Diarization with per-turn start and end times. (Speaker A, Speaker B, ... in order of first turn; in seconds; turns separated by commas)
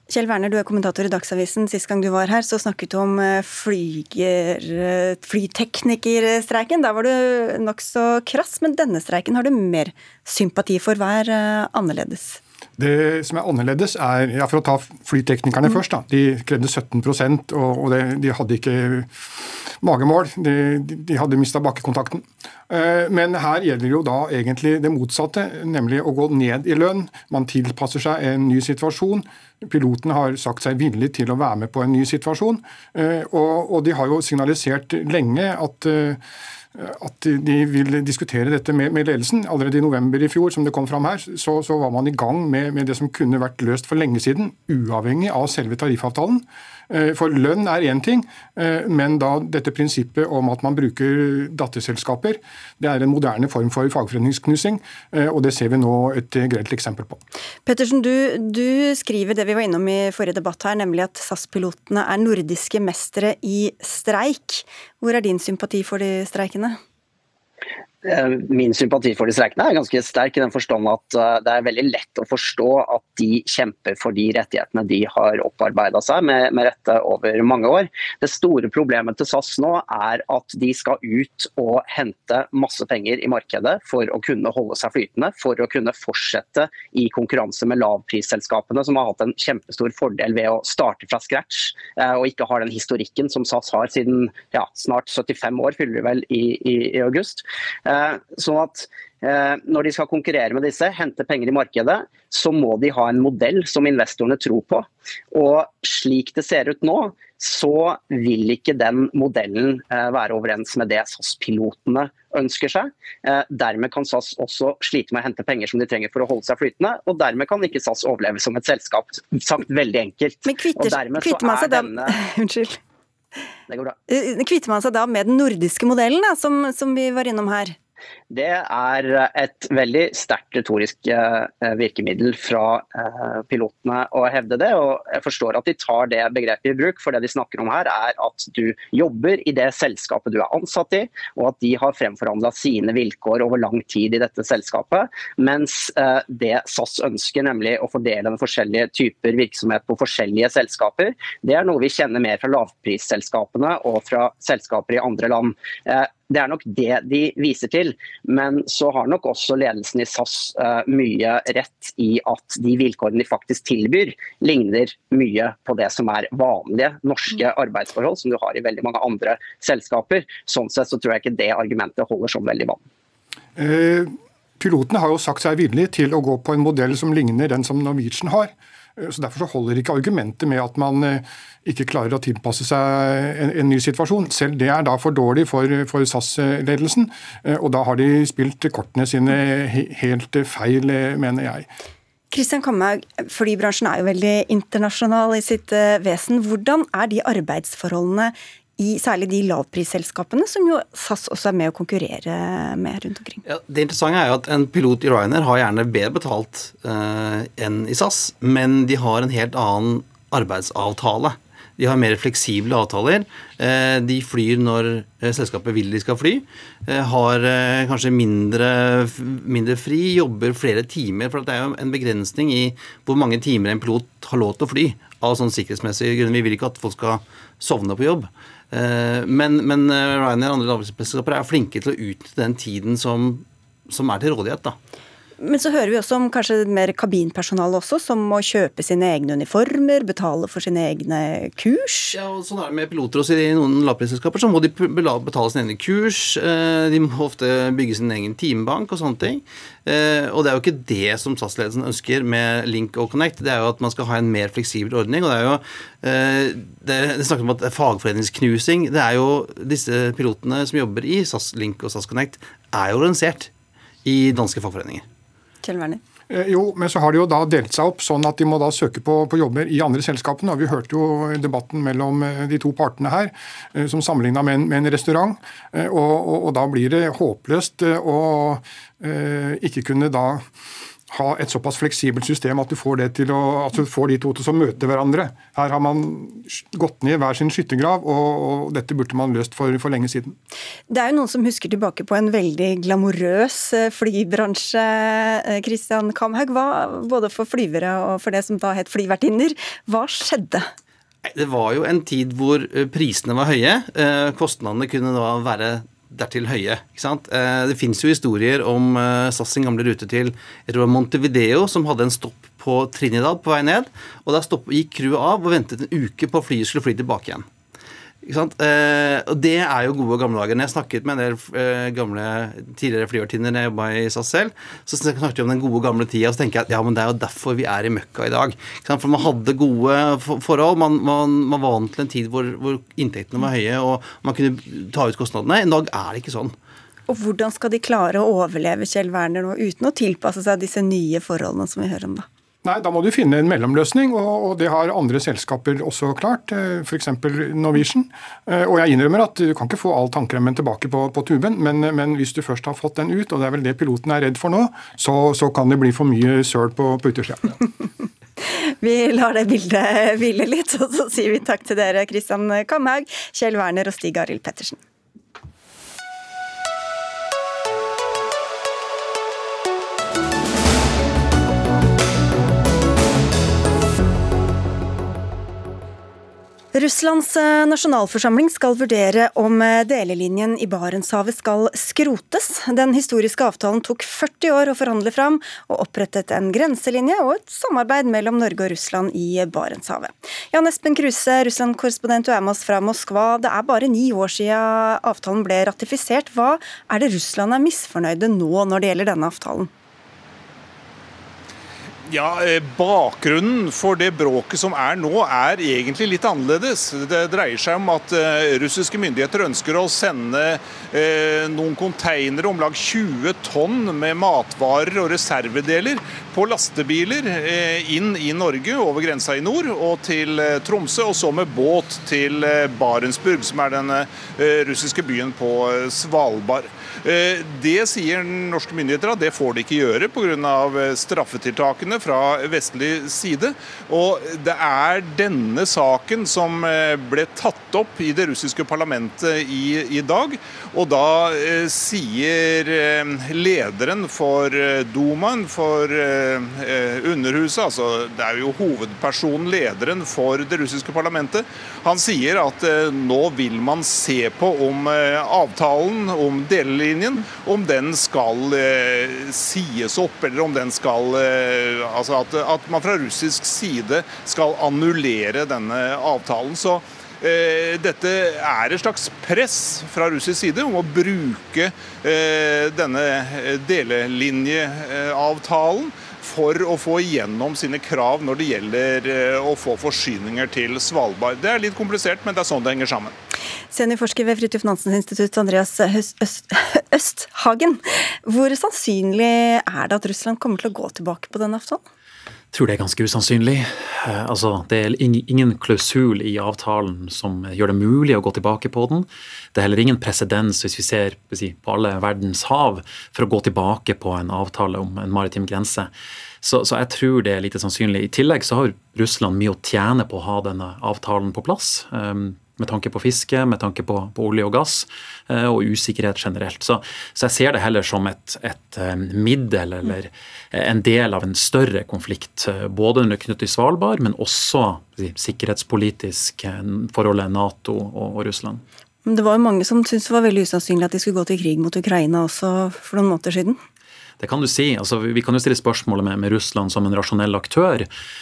Speaker A: 0.1-12.4, Speaker B: 12.8-19.1, Speaker B: 19.8-36.2, Speaker B: 36.8-57.2, Speaker A: 57.6-66.8, Speaker C: 68.0-122.2, Speaker A: 120.5-122.8, Speaker C: 123.7-124.0, Speaker A: 124.1-127.8, Speaker C: 128.3-172.8, Speaker B: 173.6-191.7, Speaker A: 192.3-203.4, Speaker D: 203.4-234.8, Speaker A: 235.4-242.2, Speaker D: 242.1-263.5, Speaker D: 264.0-265.0, Speaker A: 265.6-266.0, Speaker B: 266.3-280.4, Speaker B: 281.1-290.3, Speaker A: 290.9-300.7, Speaker D: 301.2-317.5, Speaker D: 318.2-336.5, Speaker A: 337.1-342.2, Speaker B: 342.6-357.4, Speaker A: 358.5-364.8, Speaker A: 376.7-399.7, Speaker E: 402.1-483.1, Speaker A: 483.7-491.8, Speaker F: 492.5-505.9, Speaker F: 506.4-528.6, Speaker A: 529.0-533.6, Speaker F: 534.2-537.9